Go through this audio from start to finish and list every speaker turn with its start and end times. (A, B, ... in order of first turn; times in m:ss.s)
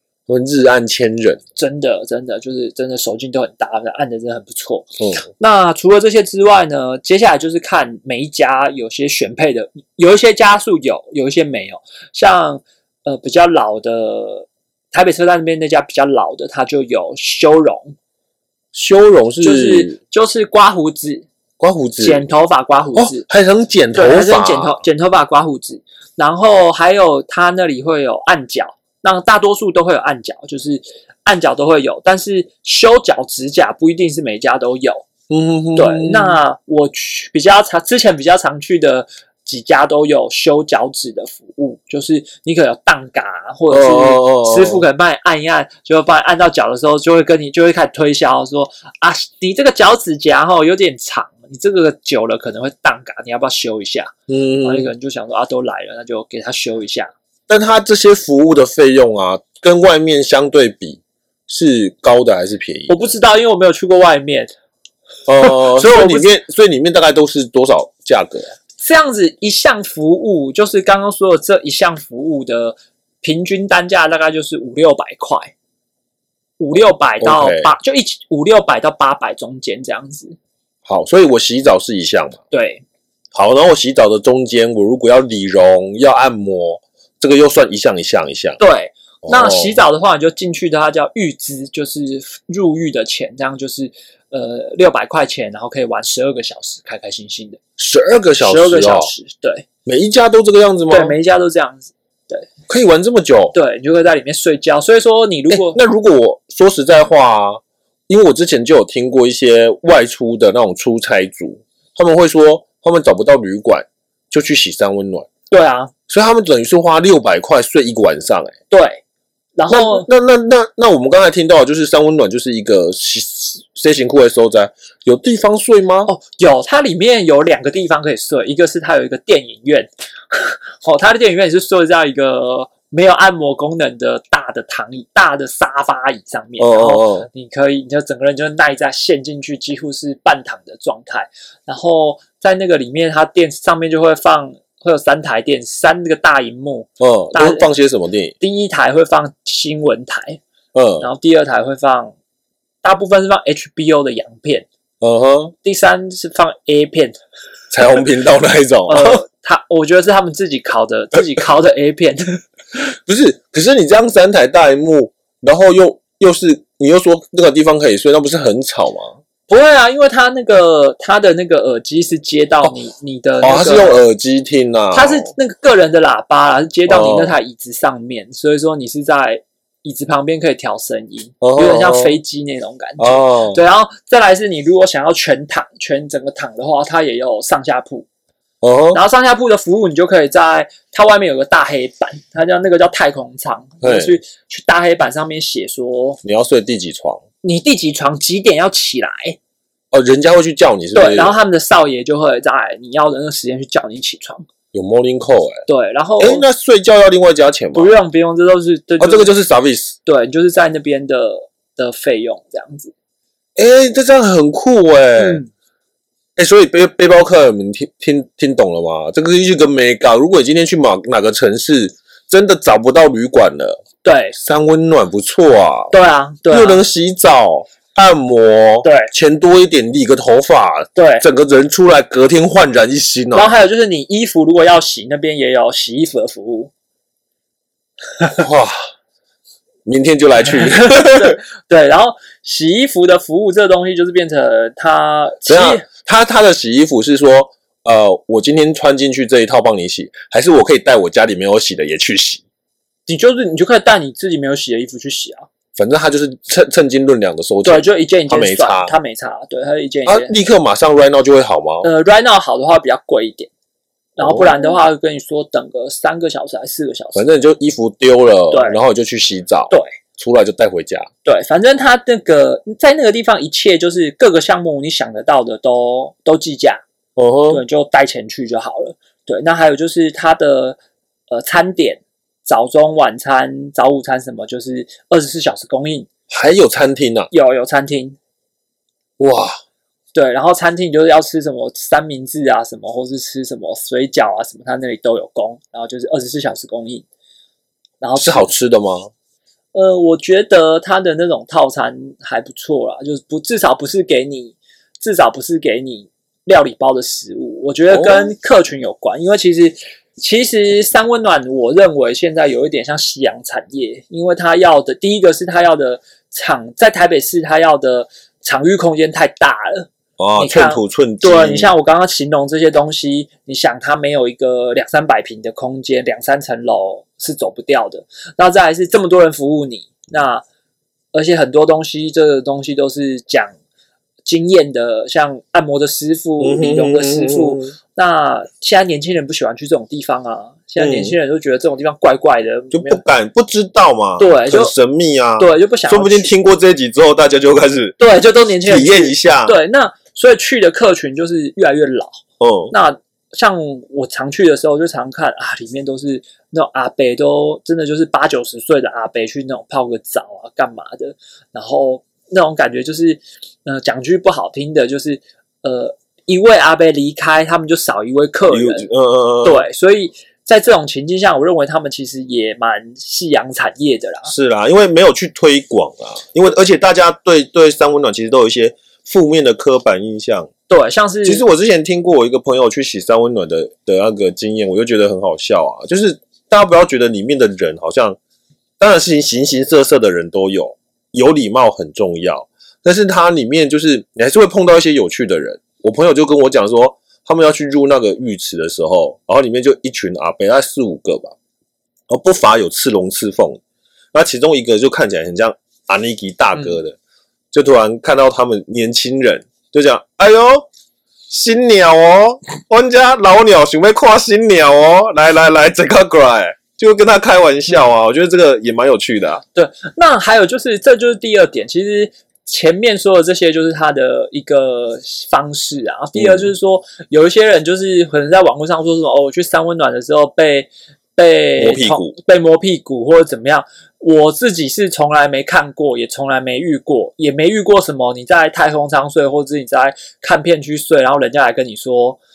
0:00.3-0:01.4 A
0:01.6-0:18.0 B
0:18.7-0:20.0 A
0:19.4-0:21.3 B
0:21.6-0:22.2 A
0:22.0-0:23.2 B
0:23.0-0:24.8 A
0:23.9-0:35.1 B
0:35.3-0:36.4 A
0:35.8-0:57.1 B
0:43.7-0:44.8 A
0:54.3-0:54.9 A
0:57.5-1:03.1 A
1:02.9-1:04.5 B
1:05.3-1:08.5 A
1:05.4-1:06.3 B
1:08.8-1:15.5 B
1:16.6-1:20.4 B
1:17.2-1:17.7 A
1:20.9-1:22.4 A
1:22.5-1:22.8 B
1:23.3-1:28.6 A
1:28.6-1:37.6 B
1:29.2-1:29.8 A
1:37.8-1:39.1 A
1:38.4-1:39.7 B
1:39.8-1:41.2 A
1:40.9-1:42.5 B
1:42.7-1:43.6 A
1:43.5-1:45.8 B
1:45.5-1:55.3 A
1:55.5-1:55.9 B
1:56.1-1:58.5 A
1:58.7-1:59.0 B
1:59.6-2:00.1 B
1:59.7-2:06.1 A
2:06.1-2:27.7 B
2:16.6-2:17.3 A
2:27.0-2:28.4 A
2:28.4-2:30.4 B
2:30.7-2:31.1 A
2:31.0-2:32.1 B
2:32.8-2:34.7 B
2:35.0-2:35.5 A
2:35.6-2:37.2 B
2:37.7-2:39.2 A
2:38.9-2:42.4 B
2:43.1-2:49.2 A
2:49.5-2:54.0 B
2:53.4-2:55.3 A
2:54.9-3:08.1 B
2:56.9-2:57.3 A
3:01.4-3:02.2 A
3:03.0-3:03.6 A
3:08.6-3:09.0 A
3:08.9-3:16.2 B
3:13.8-3:14.1 A
3:16.2-3:17.2 A
3:17.4-3:19.4 B
3:19.9-3:21.4 A
3:21.0-3:24.5 B
3:24.7-3:25.6 A
3:25.7-3:26.5 B
3:26.2-3:27.9 A
3:27.7-3:29.3 B
3:29.0-3:30.0 A
3:30.1-3:32.9 B
3:33.6-3:35.4 A
3:35.2-3:35.5 B
3:36.4-3:43.8 A
3:44.0-3:44.4 B
3:44.4-3:45.9 A
3:45.9-3:46.8 B
3:46.5-3:53.5 A
3:48.8-3:49.1 B
3:51.0-3:51.2 B
3:53.3-3:56.7 B
3:58.4-3:58.8 A
3:59.9-4:01.4 A
4:00.6-4:05.8 B
4:05.5-4:12.4 A
4:13.1-4:15.5 B
4:15.8-4:19.0 A
4:17.6-4:20.3 B
4:20.1-4:21.9 A
4:21.8-4:23.5 B
4:24.2-4:27.2 B
4:24.2-4:24.6 A
4:27.2-4:31.1 A
4:28.5-4:28.8 B
4:31.2-4:36.8 B
4:37.2-4:37.6 A
4:37.5-4:40.8 B
4:41.3-4:46.1 B
4:46.3-4:47.3 A
4:47.3-4:48.2 B
4:49.2-4:49.6 A
4:50.1-4:57.0 B
4:58.0-4:58.5 B
4:58.2-4:59.1 A
4:59.7-5:30.4 B
5:07.9-5:08.3 A
5:20.2-5:21.7 A
5:31.1-5:33.5 B
5:34.2-5:43.0 B
5:36.4-5:37.7 A
5:40.8-5:41.1 A
5:42.7-5:48.0 A
5:44.2-5:44.7 B
5:45.4-5:46.3 B
5:48.0-6:08.9 B
5:48.6-5:49.6 A
5:52.4-5:52.7 A
6:08.5-6:09.6 A
6:09.4-6:14.3 B
6:14.3-6:20.5 A
6:20.7-6:21.4 B
6:21.2-6:28.2 A
6:28.8-6:41.3 A
6:42.1-6:43.6 A
6:44.1-6:47.0 A
6:47.5-6:50.7 A
6:51.3-6:59.4 A
6:59.6-7:22.2 B
7:06.2-7:06.5 A
7:11.6-7:12.2 A